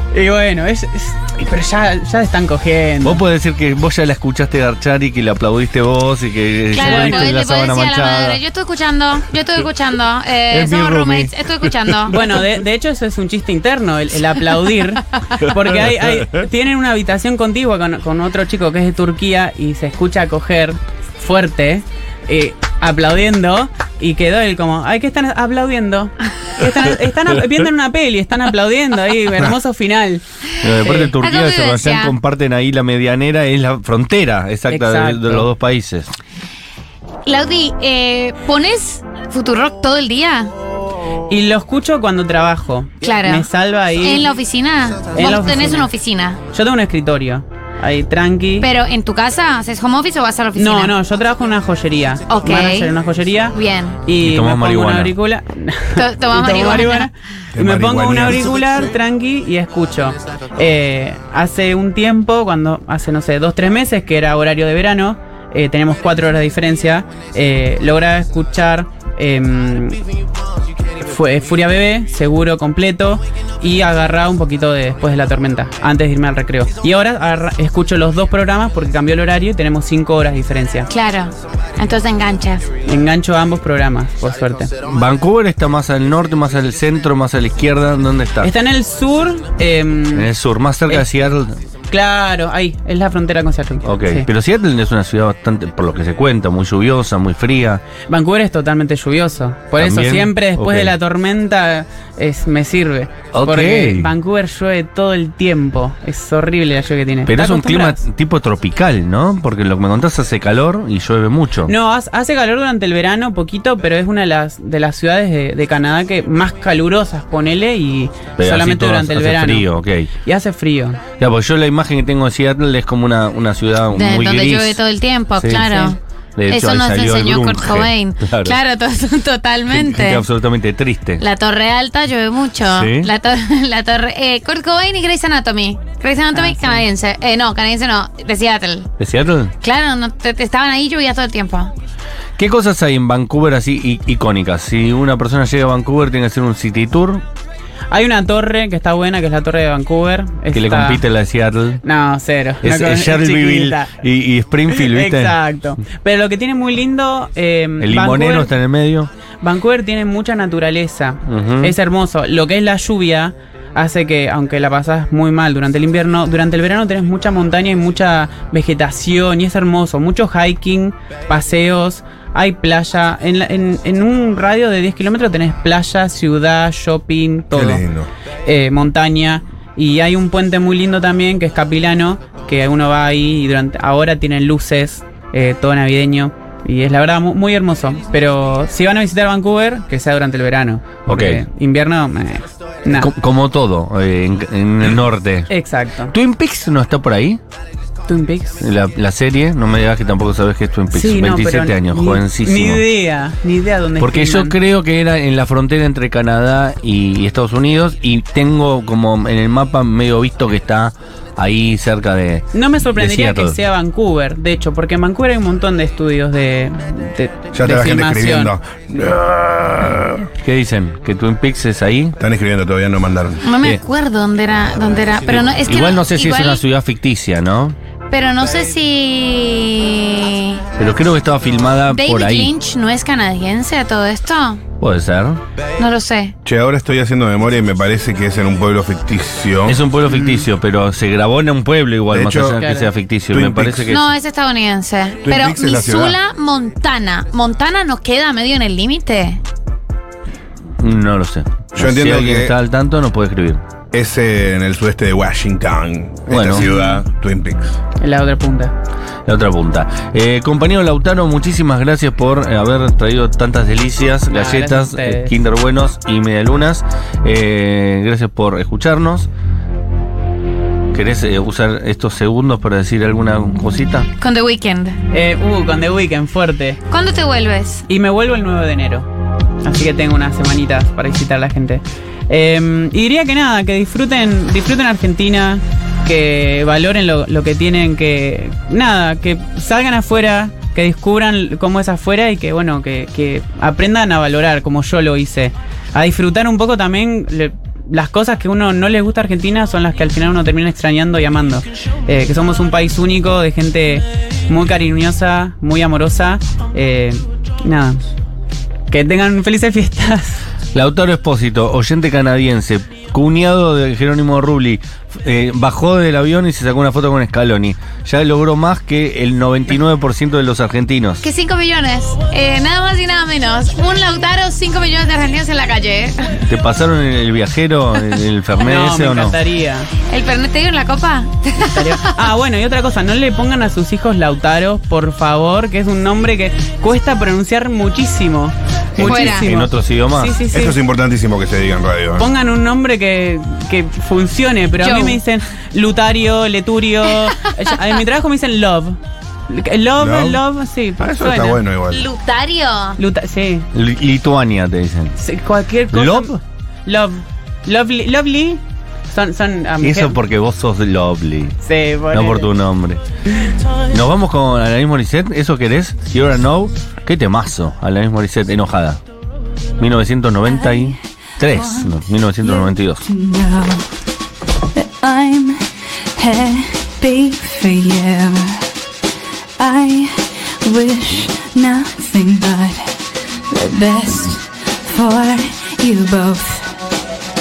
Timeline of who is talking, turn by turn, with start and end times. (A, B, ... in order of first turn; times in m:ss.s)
0:00.1-0:03.2 A
0:03.0-0:08.4 B
0:06.7-0:12.2 C
0:06.7-0:07.3 A
0:10.5-0:11.3 B
0:12.1-0:30.2 A
0:30.6-0:36.1 B
0:30.8-0:31.1 A
0:31.2-0:32.1 C
0:34.7-0:35.5 A
0:37.2-0:40.5 C
0:41.3-0:44.3 A
0:43.0-0:43.5 C
0:44.0-0:46.4 C
0:45.1-0:45.9 A
0:46.5-0:48.7 A
0:48.6-0:50.9 C
0:50.6-1:10.0 A
0:52.3-0:52.9 C
0:53.5-0:54.0 C
0:54.2-0:55.1 B
0:55.9-0:57.1 C
0:57.5-0:58.8 D
1:11.0-1:20.9 A
1:20.9-1:22.7 C
1:22.8-1:24.7 A
1:24.8-1:28.5 B
1:28.4-1:30.3 A
1:30.1-1:31.6 B
1:31.9-1:34.3 A
1:33.8-1:37.8 B
1:38.1-1:48.0 A
1:39.8-1:40.9 B
1:43.3-1:44.1 B
1:47.3-1:51.7 B
1:51.7-1:59.6 A
1:58.4-2:00.1 B
2:00.2-2:01.0 A
2:01.2-2:04.8 B
2:03.9-2:06.0 C
2:05.4-2:05.7 B
2:05.5-2:05.9 A
2:06.4-2:08.6 B
2:06.5-2:10.2 C
2:09.7-2:11.2 B
2:11.2-2:18.9 C
2:12.7-2:13.1 B
2:16.3-2:16.8 A
2:19.0-2:19.5 B
2:19.6-2:21.7 C
2:22.4-2:27.2 B
2:27.9-2:31.0 A
2:30.5-2:31.8 B
2:31.8-2:34.0 A
2:32.6-2:35.4 B
2:34.7-2:38.5 A
2:37.8-2:39.1 B
2:39.4-2:57.8 A
2:41.2-2:41.7 B
2:57.5-2:58.1 D
2:58.4-3:13.1 A
3:11.1-3:11.4 B
3:13.0-3:15.5 B
3:15.5-3:16.1 A
3:16.1-3:17.4 B
3:18.1-3:18.6 A
3:18.6-3:22.8 B
3:20.9-3:24.6 A
3:24.0-3:33.6 B
3:32.5-3:38.5 A
3:37.5-3:40.3 D
3:40.4-3:42.2 B
3:42.2-3:43.5 D
3:43.4-3:46.6 C
3:45.5-3:47.8 B
3:48.1-3:50.6 C
3:50.8-3:52.5 B
3:51.9-3:54.6 C
3:54.8-3:55.4 B
3:55.8-3:56.3 C
3:56.4-3:59.8 D
3:59.6-4:04.1 B
4:00.1-4:00.4 A
4:02.1-4:02.6 D
4:02.6-4:02.9 A
4:03.3-4:04.0 D
4:03.9-4:09.4 C
4:05.2-4:06.2 D
4:10.8-4:13.6 B
4:11.8-4:12.5 D
4:13.9-4:17.8 D
4:16.3-4:16.6 B
4:16.6-4:17.0 A
4:18.0-4:18.7 A
4:19.2-4:29.3 B
4:24.3-4:25.4 A
4:30.9-4:34.1 B
4:34.2-4:35.0 C
4:35.1-4:36.8 A
4:36.9-4:37.8 C
4:37.9-4:39.1 A
4:39.6-5:08.0 A
5:08.9-5:10.4 A
5:10.7-5:21.3 B
5:21.2-5:26.4 C
5:26.4-5:29.4 B
5:28.6-5:29.9 A
5:30.1-5:32.1 C
5:31.6-5:40.8 A
5:39.0-5:40.4 B
5:39.0-5:39.5 C
5:40.5-5:42.3 D
5:42.2-5:51.6 A
5:44.8-5:45.2 C
5:50.0-5:50.4 D
5:51.0-5:52.1 D
5:51.9-5:53.0 C
5:53.0-5:53.6 A
5:53.7-5:55.2 B
5:55.2-6:00.2 A
5:55.9-5:56.3 B
5:59.8-6:01.6 B
6:01.6-6:02.5 A
6:02.1-6:03.0 B
6:03.8-6:09.0 B
6:09.8-6:13.0 B
6:10.5-6:13.9 E
6:14.7-6:18.7 E
6:19.6-6:23.0 E
6:23.5-6:26.9 E